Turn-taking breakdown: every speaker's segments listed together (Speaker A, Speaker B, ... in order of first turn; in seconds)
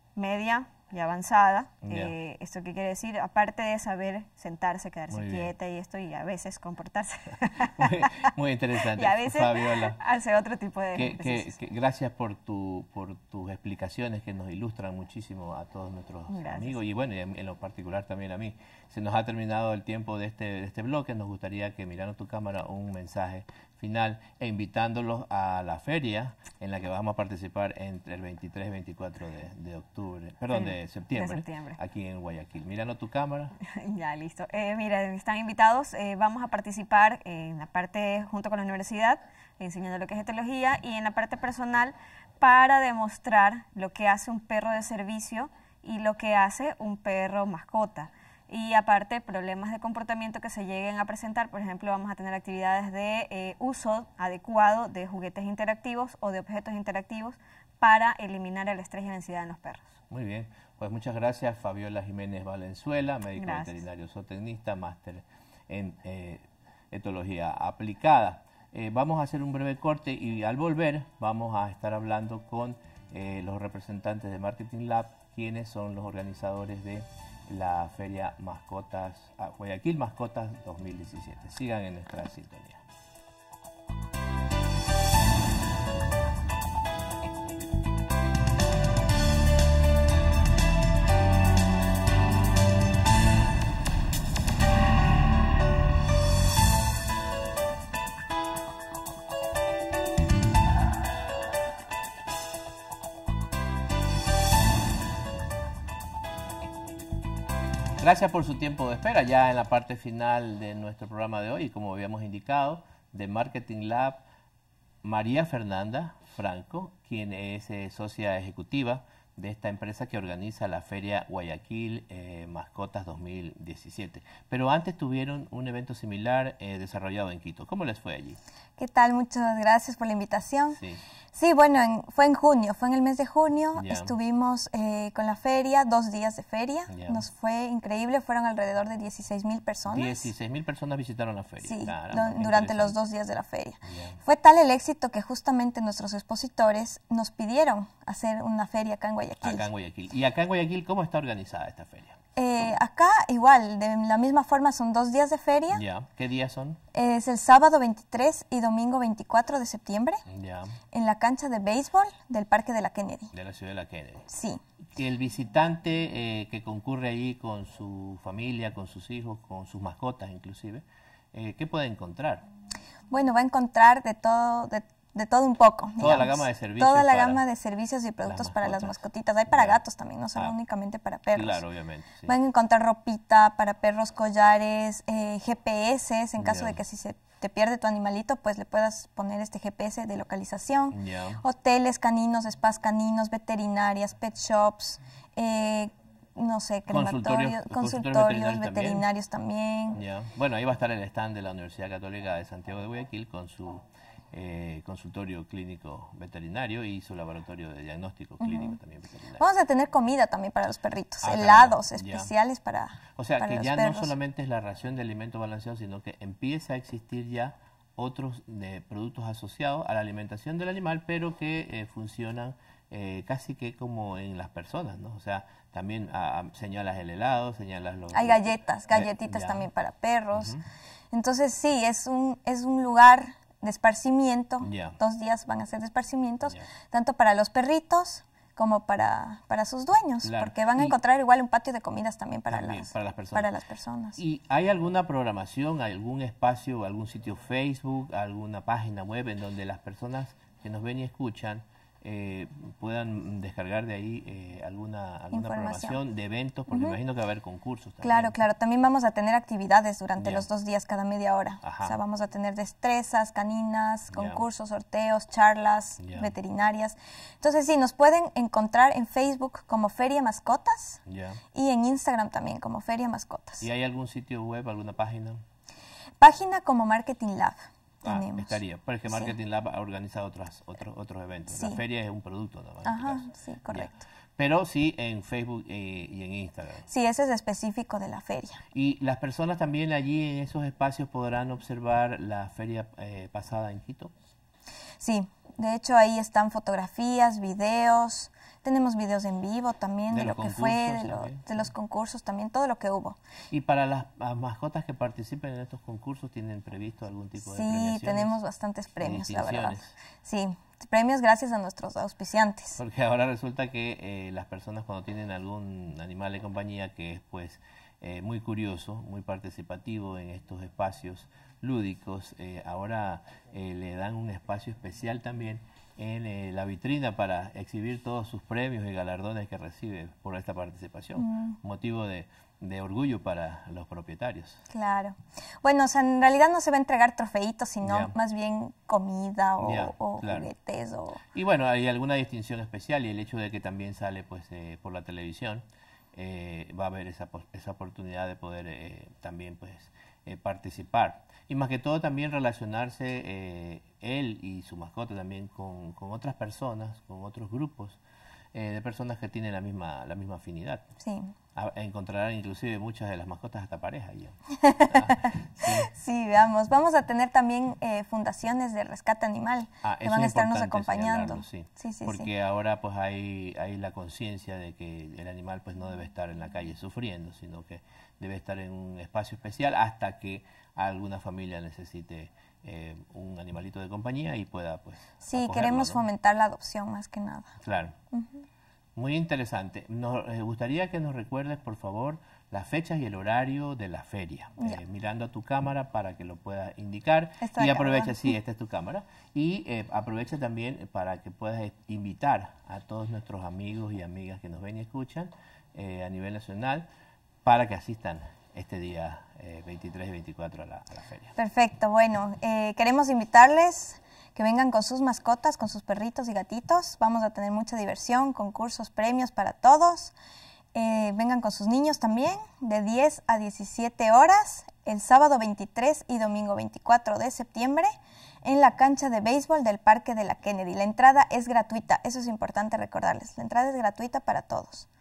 Speaker A: 0.2-11.6, 16.3-16.8, 30.5-31.8, 33.6-60.0, 63.4-63.8
Speaker B: 1.9-2.1, 5.1-5.5, 7.6-10.0, 10.9-33.6, 60.1-82.8, 108.0-114.2, 115.0-128.4, 130.8-131.0, 133.8-134.2, 136.9-137.2, 139.9-143.0, 143.9-144.2, 149.4-152.2, 155.7-156.8, 160.3-160.8, 163.3-164.3, 164.9-172.4, 176.0-177.4, 178.2-179.8, 181.3-182.3, 186.4-186.8, 190.9-191.4, 196.9-199.1, 199.9-209.4, 211.2-212.3, 213.2-229.7, 230.3-230.6, 234.6-235.0, 240.2-241.0, 242.5-243.5, 244.2-258.4, 260.2-260.5, 261.6-262.0, 264.1-264.4, 266.0-266.3, 271.1-271.4, 273.6-275.4, 278.0-286.9, 288.7-294.1, 300.1-301.7, 303.5-308.4, 309.0-310.0, 312.8-334.6, 337.8-338.1, 339.6-340.5, 341.3-358.0, 358.5-360.9, 361.6-365.9, 369.8-386.0, 387.6-387.9, 389.0-406.9, 407.4-411.4
Speaker C: 128.8-130.8, 131.3-140.3, 141.6-149.7, 152.4-155.8, 156.9-160.2, 160.9-163.3, 164.3-164.6, 173.1-181.6, 182.3-200.0, 208.4-208.8, 209.4-214.1, 228.1-230.6, 231.1-244.2, 255.3-256.0, 256.7-257.0, 258.0-271.0, 271.5-273.7, 276.2-278.6, 282.9-283.9, 286.9-288.6, 295.0-303.2, 307.4-312.8, 331.2-331.6, 334.7-341.2, 361.0-361.4, 364.6-372.3, 385.2-387.6, 388.1-388.4, 397.4-398.3, 411.4-420.1, 420.7-427.9, 428.4-434.9